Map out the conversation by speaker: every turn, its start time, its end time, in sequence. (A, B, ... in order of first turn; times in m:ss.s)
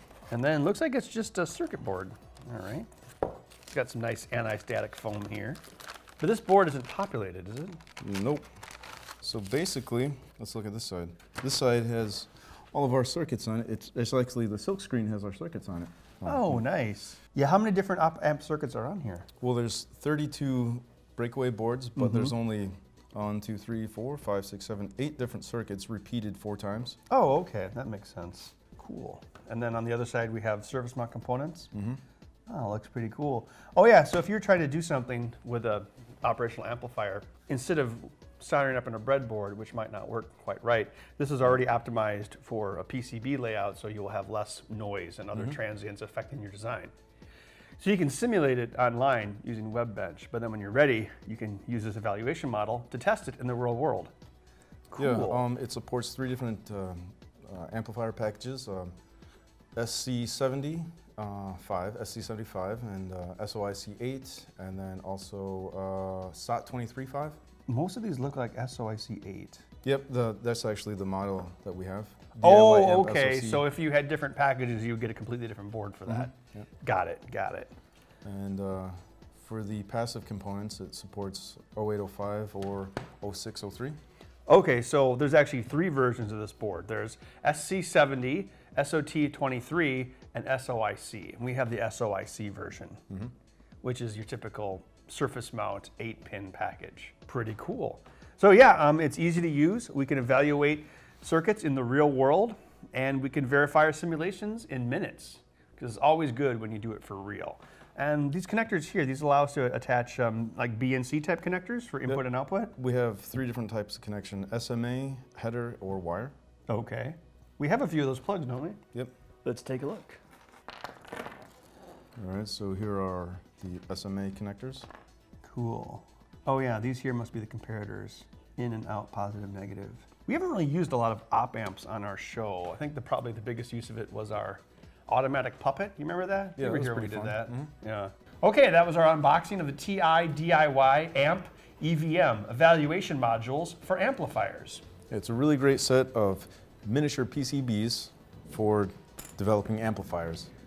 0:00.3-0:02.9 A
0:03.7-0:05.6 A
0:06.2-0:07.8 A
0:08.0-0:08.4 B
0:09.2-0:16.6 B
0:16.2-0:19.3 A
0:19.4-0:27.0 B
0:22.0-0:22.3 A
0:27.1-0:31.7 A
0:31.7-0:32.0 B
0:32.5-0:46.9 A
0:47.8-0:54.1 A
0:54.9-0:55.4 A
0:55.0-0:58.9 B
0:59.7-1:07.4 B
1:07.7-1:09.6 A
1:09.8-1:13.6 B
1:12.4-1:17.7 A
1:16.1-1:16.7 B
1:18.2-1:24.0 B
1:24.5-1:33.0 A
1:33.8-1:52.7 A
1:52.7-1:56.3 B
1:56.7-1:58.8 A
1:59.4-2:00.2 A
2:02.2-2:04.9 B
2:05.4-2:24.8 A
2:16.6-2:17.7 B
2:25.1-2:30.5 B